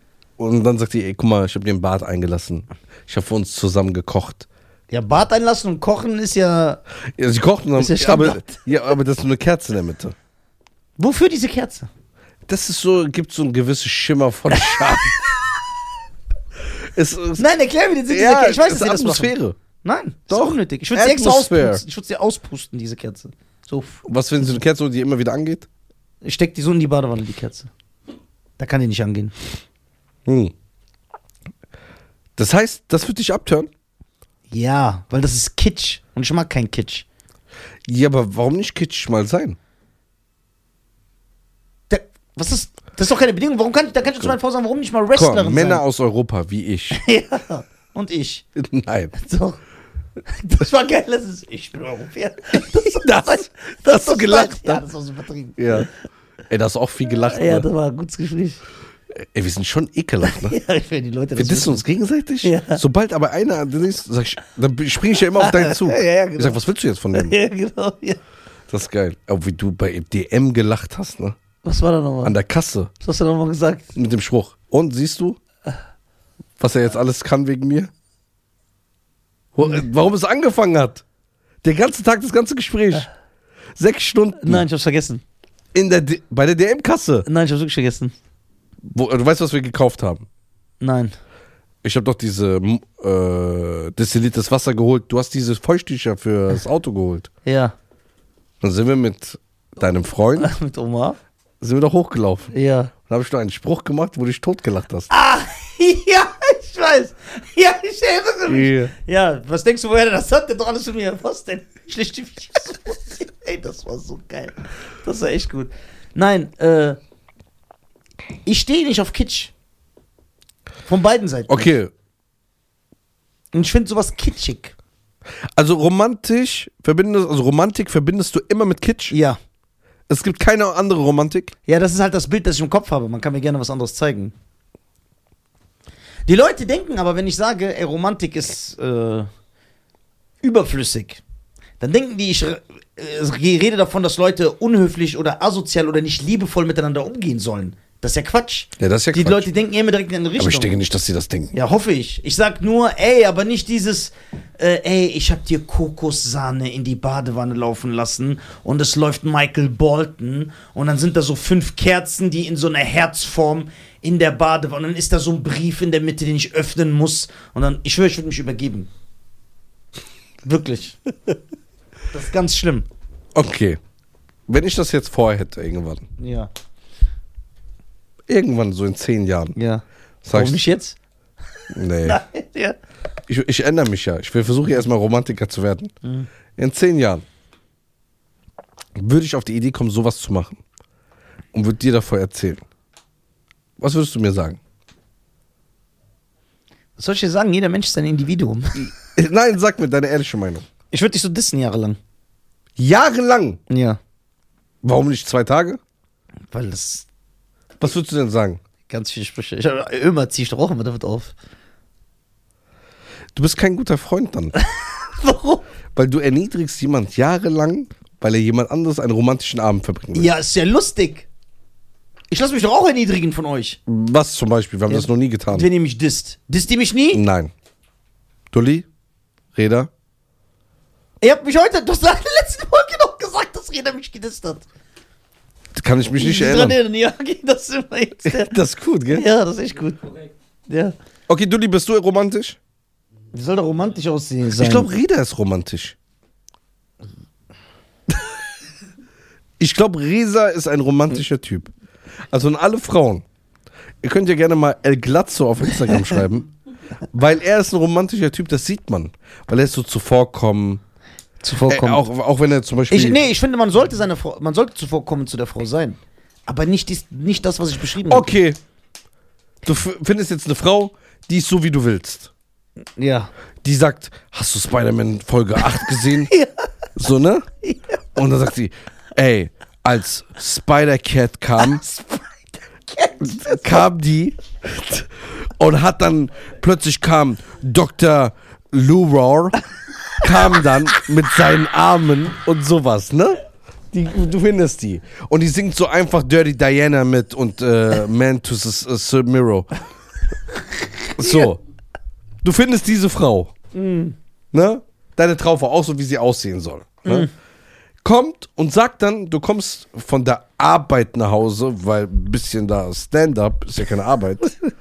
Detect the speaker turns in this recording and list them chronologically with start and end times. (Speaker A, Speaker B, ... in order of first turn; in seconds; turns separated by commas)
Speaker A: 0.4-4.5, Speaker B: 4.9-6.8, Speaker A: 7.2-10.1, Speaker B: 7.8-8.5, Speaker B: 11.0-11.9, Speaker A: 12.5-15.2, Speaker B: 14.6-14.9, Speaker A: 16.8-17.4, Speaker B: 17.4-24.0, Speaker A: 18.1-19.6, Speaker A: 20.3-21.8, Speaker A: 24.0-25.7, Speaker B: 26.2-27.7, Speaker B: 28.6-29.3, Speaker A: 30.2-30.5, Speaker A: 32.4-33.7, Speaker B: 34.5-37.0, Speaker A: 37.9-39.6, Speaker B: 41.9-45.8, Speaker A: 45.1-47.0, Speaker B: 46.9-48.4, Speaker A: 48.5-49.1, Speaker B: 49.1-49.6, Speaker B: 50.2-55.9, Speaker A: 52.7-54.8, Speaker A: 55.6-55.9, Speaker A: 56.5-57.7, Speaker B: 57.3-58.6, Speaker A: 59.1-60.6, Speaker B: 60.2-61.8, Speaker A: 61.4-67.3, Speaker B: 62.4-62.8, Speaker B: 65.4-66.6, Speaker B: 67.1-68.2, Speaker A: 68.7-71.4, Speaker B: 71.6-72.3, Speaker A: 72.2-72.9, Speaker B: 73.0-73.9, Speaker A: 73.9-75.4, Speaker A: 76.6-77.9, Speaker A: 79.5-81.0, Speaker A: 81.6-83.1, Speaker A: 83.8-84.7, Speaker B: 84.4-85.2, Speaker A: 85.7-87.2, Speaker B: 87.2-88.1, Speaker A: 88.9-90.2, Speaker B: 90.8-91.1, Speaker A: 91.8-97.3, Speaker B: 97.4-97.7, Speaker A: 98.6-100.5, Speaker B: 100.4-101.2, Speaker A: 101.6-105.1, Speaker B: 102.5-102.9, Speaker B: 105.1-117.0, Speaker A: 108.5-108.9, Speaker B: 118.4-119.5, Speaker B: 120.8-121.7, Speaker A: 121.5-121.9, Speaker B: 123.5-124.7, Speaker A: 125.6-129.2, Speaker B: 129.1-129.4, Speaker A: 130.1-131.5, Speaker B: 131.7-134.3, Speaker B: 136.2-139.3, Speaker B: 140.4-141.2, Speaker B: 141.8-150.8, Speaker A: 148.8-149.5, Speaker A: 150.4-151.5, Speaker B: 151.5-168.9, Speaker B: 170.4-171.3, Speaker B: 172.1-172.8, Speaker A: 173.3-173.8, Speaker A: 174.5-176.1, Speaker B: 176.2-176.5, Speaker A: 178.3-179.6, Speaker B: 179.6-181.0, Speaker A: 180.2-180.6, Speaker A: 181.7-182.2, Speaker B: 182.0-182.8, Speaker A: 183.3-185.9, Speaker B: 186.0-186.3, Speaker A: 186.6-187.2, Speaker A: 188.9-190.6, Speaker A: 191.5-192.6, Speaker A: 193.8-194.6, Speaker B: 197.0-198.9, Speaker A: 198.8-200.7, Speaker B: 200.9-202.0, Speaker A: 202.8-203.6, Speaker B: 203.7-204.0, Speaker A: 204.8-205.8, Speaker B: 206.5-207.1, Speaker A: 207.8-208.6, Speaker B: 208.8-211.3, Speaker A: 213.3-214.6, Speaker B: 214.6-215.6, Speaker A: 215.9-220.3, Speaker B: 220.1-221.2, Speaker B: 222.3-223.8, Speaker A: 223.9-225.7, Speaker B: 224.9-227.2, Speaker A: 227.1-227.5, Speaker A: 228.5-228.9, Speaker A: 229.5-229.9, Speaker B: 231.2-234.6, Speaker A: 235.7-236.8, Speaker B: 236.2-238.5, Speaker A: 238.2-239.3, Speaker B: 239.1-240.1, Speaker B: 240.7-240.9, Speaker A: 241.3-242.6, Speaker B: 243.3-244.9, Speaker A: 244.5-245.9, Speaker A: 249.6-251.7, Speaker A: 252.3-253.2, Speaker A: 254.0-256.5, Speaker A: 257.1-260.8, Speaker B: 261.4-262.0, Speaker A: 261.7-263.2, Speaker B: 262.9-268.3, Speaker A: 268.1-268.6, Speaker A: 269.6-272.3, Speaker B: 272.9-273.3, Speaker A: 273.6-276.3, Speaker B: 275.6-276.7, Speaker A: 276.9-277.5, Speaker B: 277.6-277.9, Speaker A: 278.1-281.8, Speaker B: 281.6-283.9, Speaker A: 283.2-289.6, Speaker A: 290.2-293.4, Speaker A: 293.9-299.7, Speaker A: 301.1-301.6, Speaker A: 302.4-303.5, Speaker B: 303.7-304.1, Speaker A: 304.5-307.3, Speaker A: 308.0-314.5